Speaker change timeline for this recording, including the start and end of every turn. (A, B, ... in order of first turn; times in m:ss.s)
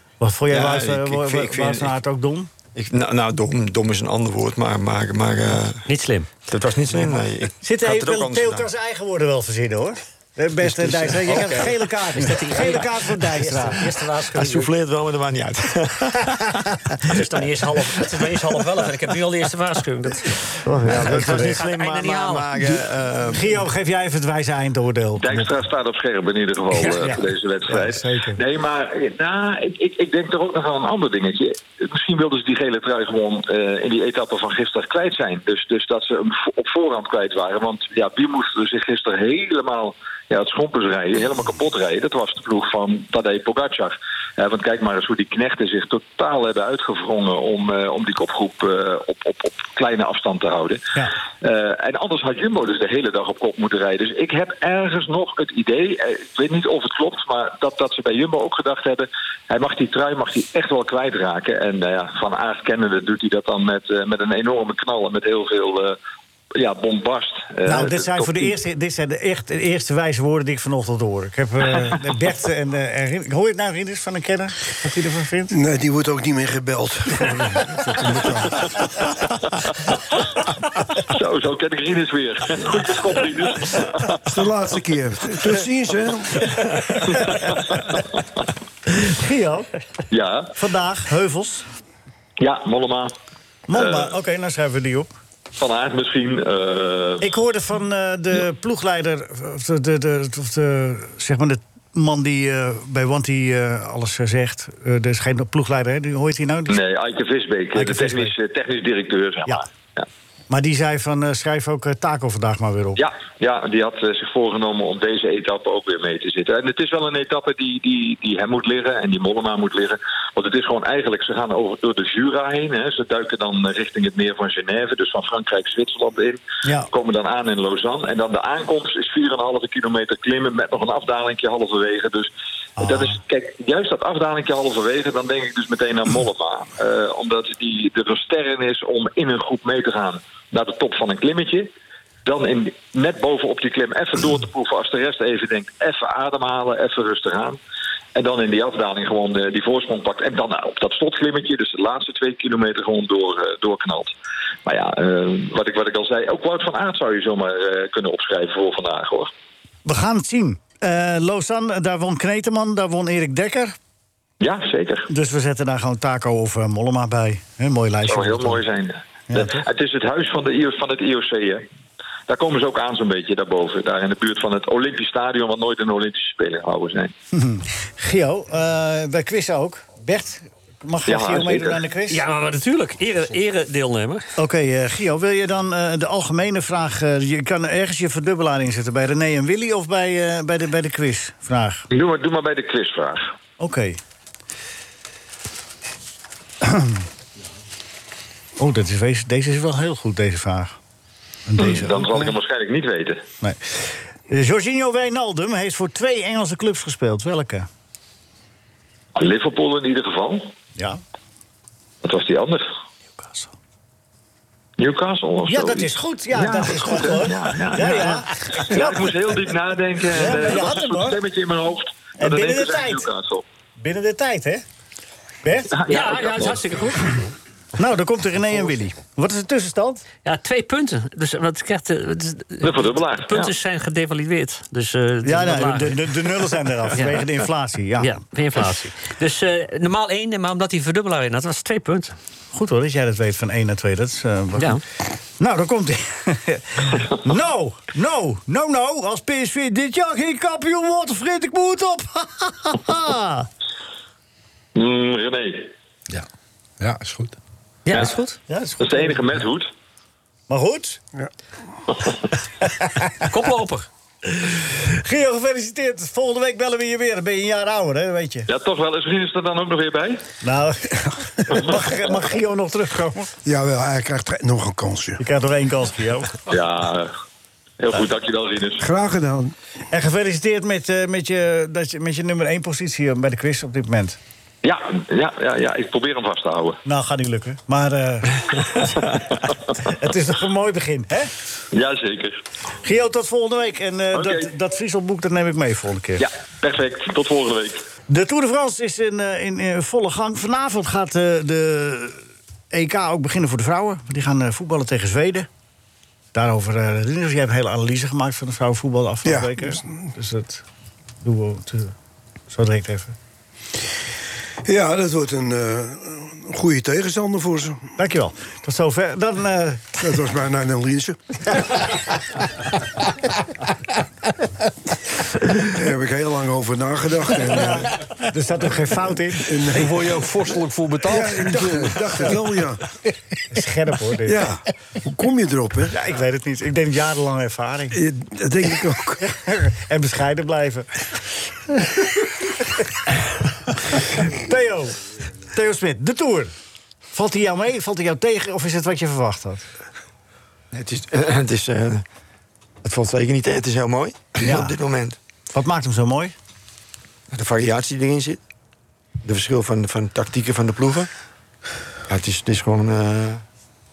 0:00.2-0:02.5 A
0:00.5-0:01.9 B
0:02.8-0:05.8 B
0:05.9-0:06.3 C
0:06.5-0:08.7 B
0:07.6-0:13.9 A
0:11.1-0:14.7 C
0:14.3-0:16.7 B
0:17.1-0:20.4 C
0:20.6-0:21.7 A
0:20.8-0:23.7 B
0:21.0-0:22.5 C
0:23.3-0:25.5 A
0:25.2-0:50.8 D
0:26.8-0:28.4 A
0:51.4-1:06.0 D
1:06.6-1:08.5 D
1:07.7-1:15.5 A
1:15.5-1:18.9 E
1:21.1-1:24.2 D
1:24.2-1:26.6 E
1:27.0-1:27.5 A
1:27.2-1:28.2 D
1:28.9-1:29.7 A
1:30.1-1:30.5 D
1:30.6-1:31.7 A
1:32.4-1:33.1 D
1:33.7-1:35.1 A
1:33.7-1:34.1 D
1:35.6-1:37.2 D
1:37.2-1:46.8 A
1:46.7-1:50.1 D
1:47.8-1:48.3 A
1:50.5-1:53.0 A
1:53.0-2:21.7 D
2:12.8-2:13.2 A
2:22.2-2:27.6 D
2:28.2-2:34.1 D
2:34.7-2:39.3 D
2:39.9-2:43.8 A
2:44.4-2:45.1 D
2:45.1-2:48.6 A
2:48.1-2:51.7 D
2:49.3-2:49.6 A
2:52.3-2:57.1 D
2:57.3-3:02.2 A
3:01.1-3:01.8 D
3:02.1-3:04.3 C
3:04.4-3:11.9 A
3:11.9-3:13.3 D
3:13.6-3:14.0 A
3:16.6-3:17.0 A
3:18.6-3:20.8 A
3:21.5-3:22.3 A
3:21.6-3:23.2 D
3:23.4-3:23.7 A
3:24.3-3:27.7 A
3:29.2-3:30.5 D
3:32.0-3:32.7 D
3:33.2-3:33.5 A
3:34.8-3:43.4 D
3:35.5-3:39.2 A
3:40.2-3:41.2 A
3:42.2-3:43.1 A
3:43.8-3:44.6 A
3:45.4-3:46.4 A
3:45.7-3:46.6 D
3:45.9-3:47.3 C
3:47.8-3:50.0 A
3:50.2-3:56.4 C
3:52.6-3:53.5 D
3:55.2-3:58.2 A
3:56.9-3:57.3 C
3:58.0-4:02.2 C
4:02.5-4:04.8 A
4:04.6-4:04.8 C
4:05.4-4:13.5 A
4:14.8-4:15.7 D
4:16.8-4:17.4 F
4:17.9-4:18.4 C
4:18.5-4:19.2 A
4:18.8-4:19.7 D
4:20.5-4:21.0 A
4:23.2-4:23.9 C
4:24.4-4:28.5 A
4:28.5-4:30.2 D
4:30.4-4:33.3 A
4:33.5-4:35.2 E
4:35.2-4:36.4 A
4:36.5-4:37.1 D
4:37.8-4:38.8 D
4:38.8-4:39.5 E
4:39.9-4:44.2 A
4:44.6-4:46.8 D
4:46.8-4:49.2 A
4:49.8-4:51.3 A
4:51.7-4:52.4 D
4:52.8-4:56.3 A
4:54.1-4:54.5 D
4:56.2-4:57.8 D
4:58.1-5:02.2 A
5:02.7-5:05.5 A
5:06.3-5:10.6 A
5:09.2-5:09.9 E
5:11.2-5:11.9 A
5:12.5-5:13.2 A
5:14.7-5:17.8 E
5:18.0-5:20.0 A
5:20.0-5:21.8 E
5:25.6-5:27.9 E
5:27.6-5:29.5 A
5:29.4-5:30.0 E
5:29.7-5:32.4 F
5:31.0-5:32.8 E
5:33.5-5:34.5 A
5:34.3-5:35.9 E
5:35.9-5:38.0 A
5:38.0-5:39.2 E
5:39.2-5:40.9 A
5:41.7-5:42.1 A
5:43.9-5:45.0 A
5:45.5-5:46.5 A
5:47.1-5:49.7 A
5:50.7-5:52.0 B
5:52.8-5:55.2 B
5:54.4-5:54.8 A
5:55.5-5:56.4 A
5:57.3-5:58.4 B
5:59.2-6:01.1 B
6:02.1-6:03.4 B